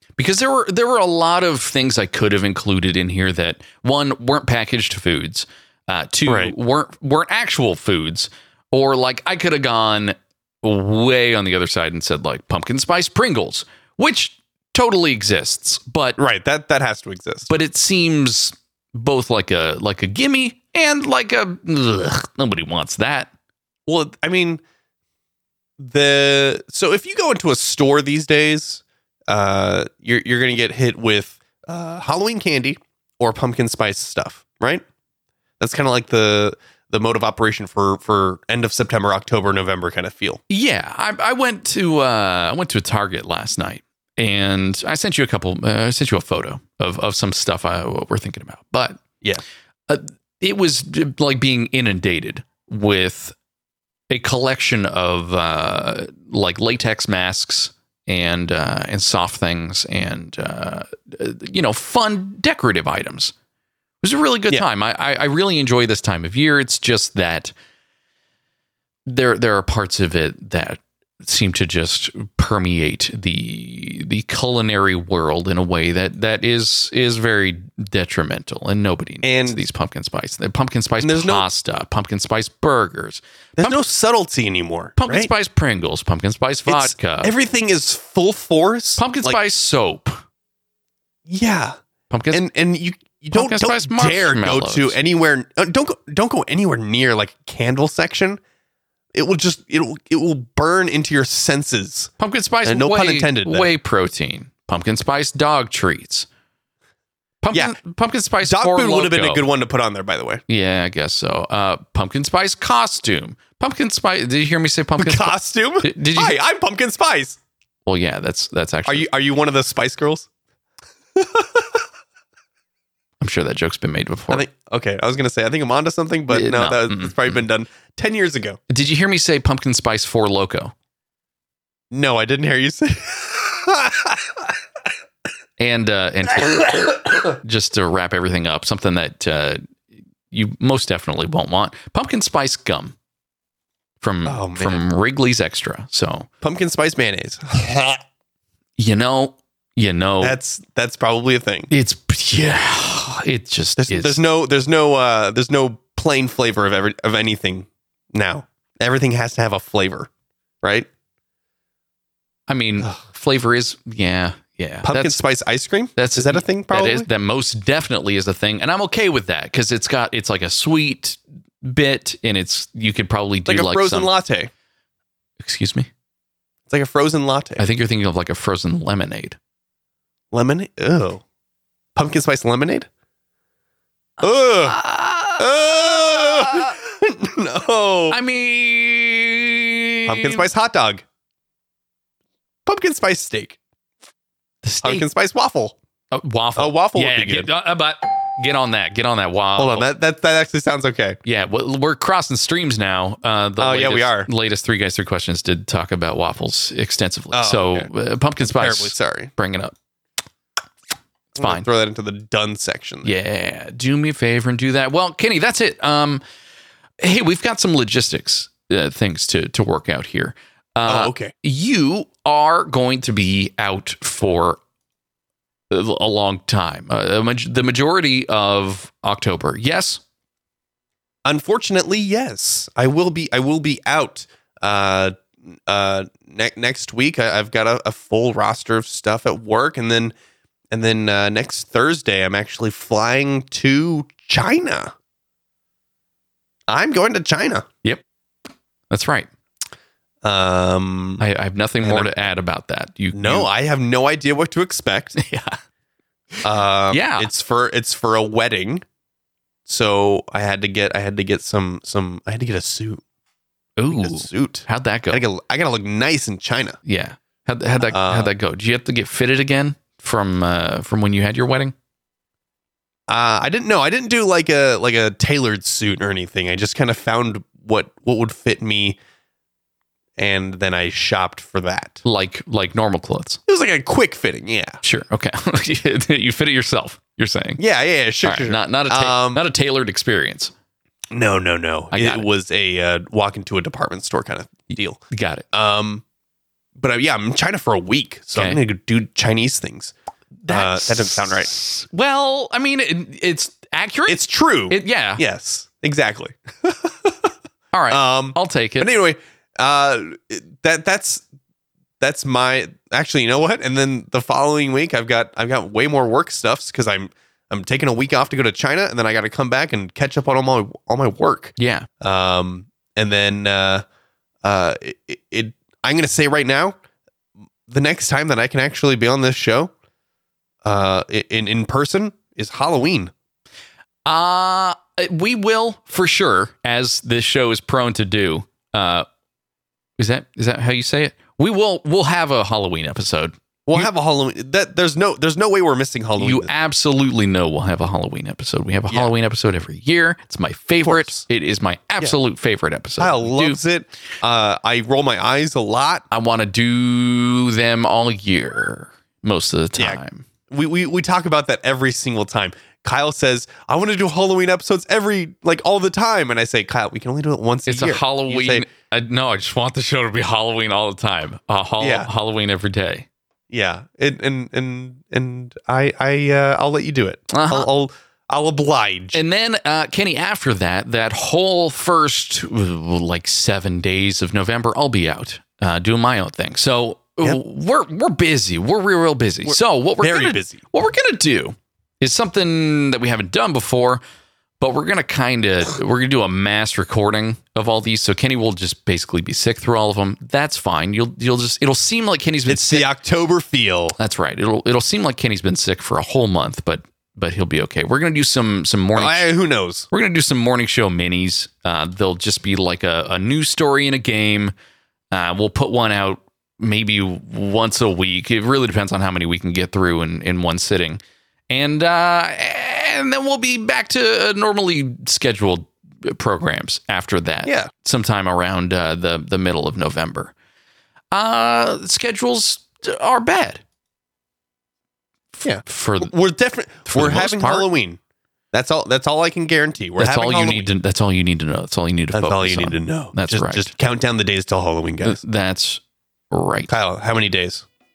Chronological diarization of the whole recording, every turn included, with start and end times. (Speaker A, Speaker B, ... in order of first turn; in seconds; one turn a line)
Speaker A: 0.2-16.2
Speaker B: 6.3-6.5
Speaker B: 16.2-17.5
Speaker A: 17.5-23.3
Speaker B: 23.9-24.6
Speaker B: 25.8-34.8
Speaker B: 35.6-40.4
Speaker A: 40.5-49.0
Speaker A: 49.9-53.3
Speaker A: 54.1-63.3
Speaker A: 64.0-67.5
Speaker A: 69.0-83.8
Speaker B: 79.2-79.6
Speaker B: 81.0-81.5
Speaker B: 83.6-85.3
Speaker A: 85.0-87.3
Speaker B: 86.7-89.4
Speaker A: 89.0-90.2
Speaker B: 91.3-91.8
Speaker A: 92.1-92.4
Speaker B: 92.3-98.4
Speaker A: 93.3-95.0
Speaker B: 99.1-102.1
Speaker A: 102.2-106.3
Speaker B: 102.6-103.7
Speaker A: 107.4-109.5
Speaker B: 107.5-107.8
Speaker B: 108.4-110.4
Speaker A: 110.5-116.3
Speaker B: 115.0-117.4
Speaker A: 117.8-119.1
Speaker B: 118.8-120.3
Speaker B: 121.2-121.8
Speaker A: 123.2-124.5
Speaker B: 124.3-128.6
Speaker A: 126.3-127.4
Speaker A: 128.7-130.7
Speaker B: 131.9-134.5
Speaker A: 135.6-139.7
Speaker A: 140.3-142.9
Speaker A: 144.0-146.3
Speaker B: 144.2-144.8
Speaker B: 146.4-148.0
Speaker A: 148.8-150.4
Speaker B: 150.2-151.7
Speaker A: 151.7-154.2
Speaker B: 153.8-160.1
Speaker B: 160.6-160.9
Speaker A: 162.5-165.2
Speaker B: 164.8-167.1
Speaker A: 165.9-174.1
Speaker B: 173.5-174.5
Speaker A: 175.4-175.9
Speaker B: 176.7-177.6
Speaker A: 177.6-179.4
Speaker B: 180.3-181.2
Speaker B: 181.9-182.9
Speaker B: 184.2-184.8
Speaker A: 184.2-185.5
Speaker B: 185.3-188.2
Speaker A: 186.1-186.7
Speaker A: 188.1-190.4
Speaker B: 190.1-191.0
Speaker B: 192.7-193.6
Speaker A: 194.6-195.1
Speaker B: 194.8-195.8
Speaker A: 196.1-199.9
Speaker B: 196.6-197.5
Speaker B: 199.6-201.2
Speaker A: 201.2-209.7
Speaker B: 203.6-204.3
Speaker B: 207.3-207.9
Speaker B: 208.4-209.3
Speaker B: 211.3-213.1
Speaker A: 211.4-211.7
Speaker A: 213.0-216.2
Speaker A: 217.0-224.6
Speaker B: 220.9-221.3
Speaker A: 225.7-230.0
Speaker B: 231.2-240.1
Speaker B: 240.7-244.9
Speaker B: 246.7-247.7
Speaker A: 248.9-249.3
Speaker B: 250.2-251.2
Speaker A: 251.2-253.5
Speaker B: 251.8-252.2
Speaker B: 253.1-255.2
Speaker A: 255.2-255.6
Speaker B: 256.4-258.8
Speaker A: 256.9-257.3
Speaker B: 259.7-263.0
Speaker A: 263.8-265.2
Speaker B: 263.9-266.8
Speaker A: 266.8-271.7
Speaker B: 267.8-268.3
Speaker B: 273.1-279.0
Speaker B: 280.2-282.0
Speaker A: 282.0-283.4
Speaker B: 283.5-284.8
Speaker A: 284.8-287.6
Speaker B: 287.6-289.4
Speaker A: 288.2-290.5
Speaker B: 291.1-296.0
Speaker A: 291.9-292.2
Speaker A: 295.1-295.4
Speaker B: 296.8-299.9
Speaker A: 298.3-298.6
Speaker A: 300.4-305.2
Speaker B: 300.5-301.5
Speaker B: 304.1-307.3
Speaker A: 307.7-308.9
Speaker B: 307.9-311.2
Speaker B: 312.0-323.8
Speaker A: 321.6-321.9
Speaker B: 324.4-326.8
Speaker B: 327.7-329.7
Speaker B: 330.6-333.1
Speaker A: 334.1-339.1
Speaker A: 340.0-343.9
Speaker B: 343.7-346.5
Speaker A: 346.2-353.6
Speaker B: 350.8-351.2
Speaker B: 353.0-356.1
Speaker A: 356.1-360.3
Speaker B: 359.8-368.7
Speaker A: 367.7-373.1
Speaker B: 371.8-372.1
Speaker B: 373.5-379.2
Speaker A: 377.3-377.7
Speaker A: 379.1-394.0
Speaker B: 389.4-390.6
Speaker A: 394.6-402.9
Speaker B: 402.5-403.9
Speaker A: 404.0-409.3
Speaker B: 408.9-409.9
Speaker A: 409.9-414.5
Speaker A: 415.1-430.3
Speaker B: 427.4-427.7
Speaker A: 431.1-433.6
Speaker A: 435.3-436.1
Speaker B: 435.4-438.0
Speaker A: 436.9-437.7
Speaker B: 438.5-440.7
Speaker A: 440.0-443.7
Speaker B: 442.1-445.2
Speaker A: 445.0-446.7
Speaker B: 446.7-447.6